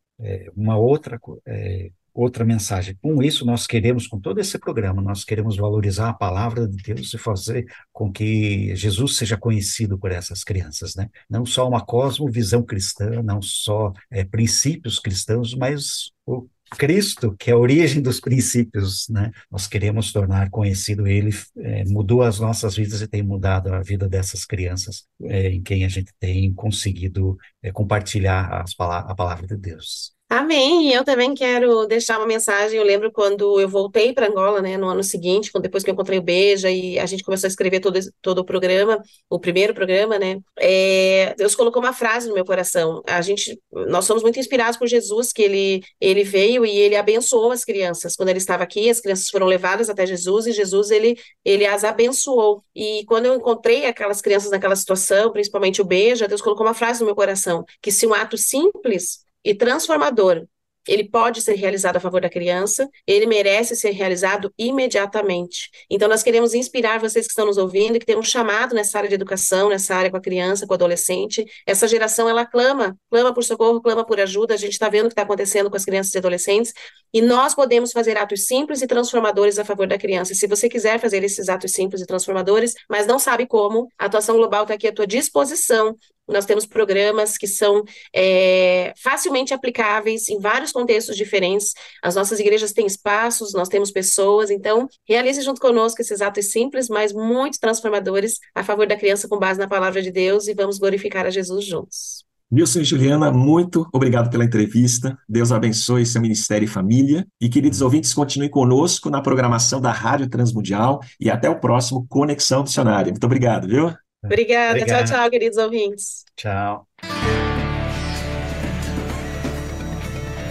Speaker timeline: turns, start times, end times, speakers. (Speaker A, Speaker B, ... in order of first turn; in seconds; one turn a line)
Speaker A: 0.2-30.1
Speaker B: 30.3-102.2
Speaker C: 102.5-114.0
Speaker A: 114.2-115.2
Speaker B: 114.3-116.2
Speaker A: 116.4-116.8